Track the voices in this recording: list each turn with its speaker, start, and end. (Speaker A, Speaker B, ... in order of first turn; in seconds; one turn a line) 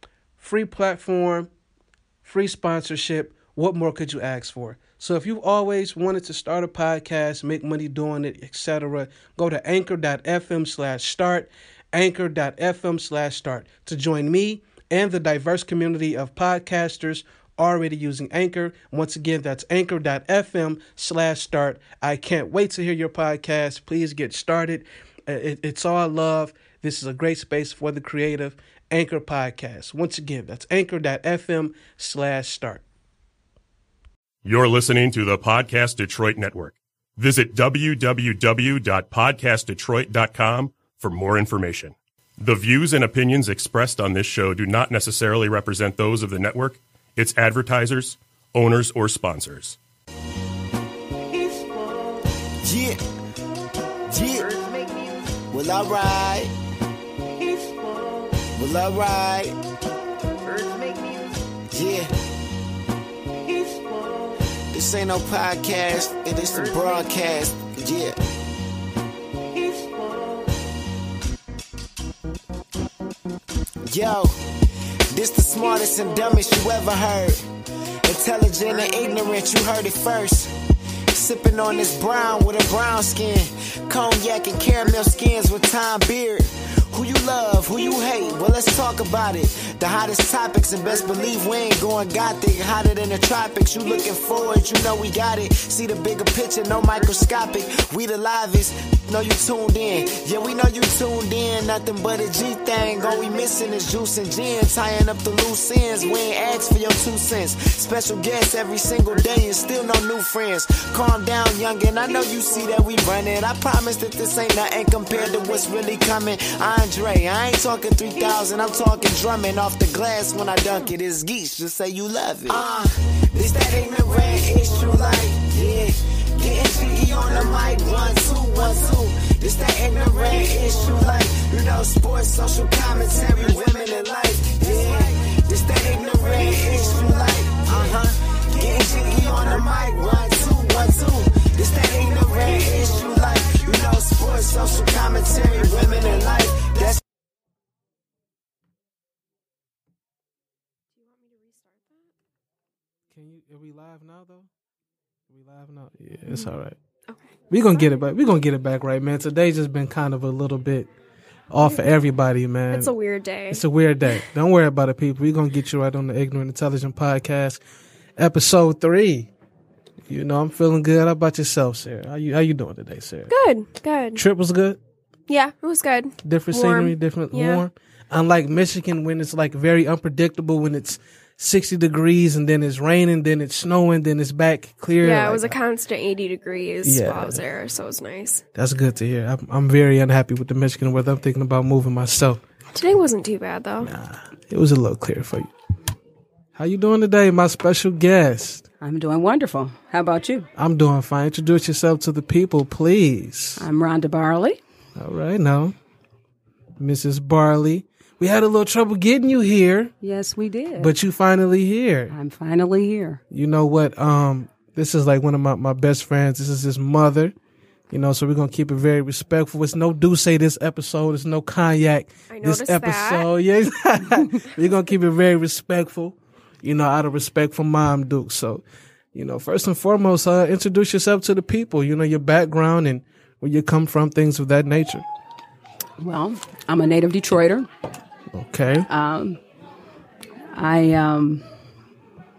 Speaker A: 0.4-1.5
Speaker A: 2.2-32.8
Speaker B: 34.4-49.8
Speaker C: 52.6-53.0
Speaker C: 54.1-54.5
Speaker C: 55.5-56.5
Speaker C: 58.6-59.6
Speaker C: 61.7-62.1
Speaker C: 64.7-68.2
Speaker C: 73.8-74.4
Speaker C: 75.1-77.5
Speaker C: 78.0-80.5
Speaker C: 81.1-147.0
Speaker D: 151.0-152.0
Speaker A: 153.1-154.5
Speaker A: 155.3-156.8
Speaker A: 157.5-160.9
Speaker A: 161.5-162.9
Speaker D: 162.7-164.2
Speaker A: 163.5-167.6
Speaker A: 168.2-169.3
Speaker A: 170.1-173.3
Speaker D: 173.3-174.2
Speaker A: 174.2-174.8
Speaker D: 175.3-177.6
Speaker A: 176.2-185.6
Speaker D: 185.0-188.4
Speaker A: 186.8-187.4
Speaker A: 188.6-192.4
Speaker D: 192.7-193.9
Speaker A: 193.8-195.5
Speaker A: 196.6-198.6
Speaker E: 198.8-200.5
Speaker A: 200.6-203.6
Speaker E: 203.6-204.6
Speaker A: 205.0-205.8
Speaker A: 206.8-209.9
Speaker E: 210.0-210.9
Speaker A: 210.8-212.1
Speaker E: 212.1-213.2
Speaker A: 213.3-217.3
Speaker A: 217.9-228.6
Speaker D: 222.3-223.3
Speaker A: 229.1-235.1
Speaker E: 236.0-237.7
Speaker A: 238.3-238.9
Speaker E: 238.9-239.4
Speaker E: 240.5-241.4